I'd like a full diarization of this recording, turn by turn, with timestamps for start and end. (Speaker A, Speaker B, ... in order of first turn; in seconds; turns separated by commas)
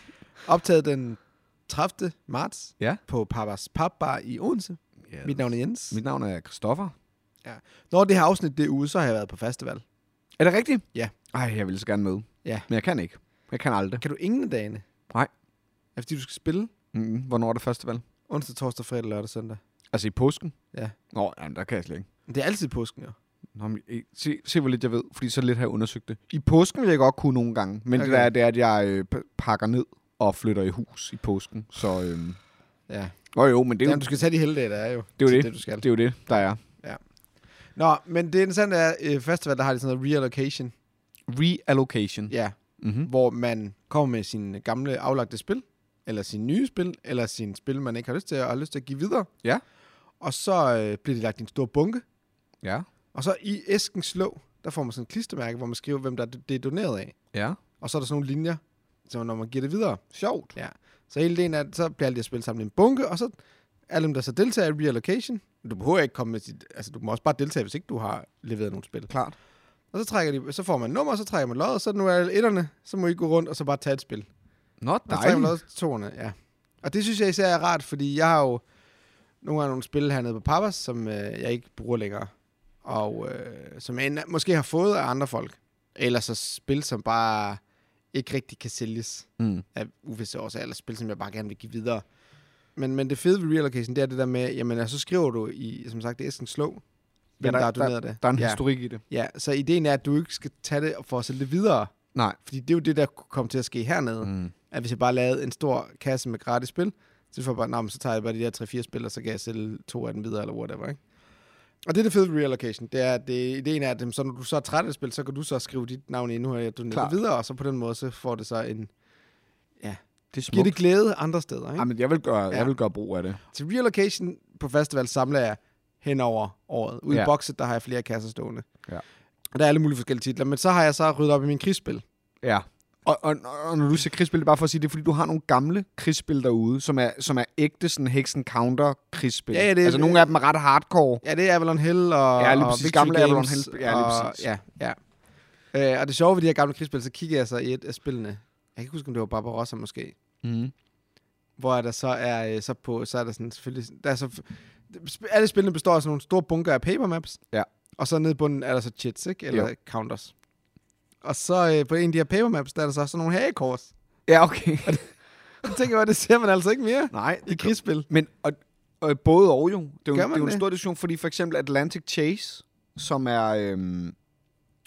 Speaker A: 0.4-6.0, Speaker B: 5.1-6.9, Speaker A: 7.4-9.8, Speaker B: 10.4-14.0, Speaker A: 14.0-14.8, Speaker A: 15.9-16.7, Speaker B: 16.9-18.0, Speaker A: 18.3-19.6, Speaker B: 19.9-20.5, Speaker B: 21.1-22.1, Speaker A: 22.3-23.1, Speaker B: 23.6-32.4, Speaker A: 27.9-28.3, Speaker A: 32.9-33.1, Speaker B: 33.3-34.1, Speaker A: 33.8-35.9, Speaker B: 35.2-36.6, Speaker A: 37.8-40.7, Speaker B: 41.3-43.1, Speaker A: 42.3-49.3, Speaker A: 50.2-52.0, Speaker A: 53.1-57.1, Speaker B: 57.3-57.6, Speaker A: 57.8-60.0, Speaker B: 60.1-60.5, Speaker A: 60.5-63.3, Speaker A: 63.9-69.1, Speaker B: 69.1-69.3, Speaker A: 69.9-74.3, Speaker B: 74.8-75.5, Speaker A: 75.1-78.6, Speaker A: 79.4-82.3, Speaker A: 82.8-87.6, Speaker A: 88.1-92.0, Speaker B: 89.4-89.6, Speaker A: 92.8-96.8, Speaker A: 97.4-101.9, Speaker B: 97.4-99.0, Speaker A: 102.4-111.0, Speaker B: 104.2-104.5, Speaker A: 111.8-118.9, Speaker B: 116.9-117.2, Speaker A: 119.8-121.9, Speaker B: 120.3-120.8, Speaker B: 121.8-123.4, Speaker A: 123.5-128.7, Speaker A: 129.5-132.0, Speaker B: 132.4-141.2, Speaker A: 139.5-140.3, Speaker A: 141.2-145.0, Speaker B: 142.4-144.4, Speaker A: 145.7-150.2, Speaker B: 150.4-150.7, Speaker A: 151.6-157.4, Speaker A: 158.0-160.3, Speaker A: 161.2-163.9, Speaker B: 164.3-165.0, Speaker A: 165.6-168.1, Speaker B: 167.1-174.1, Speaker A: 170.1-170.6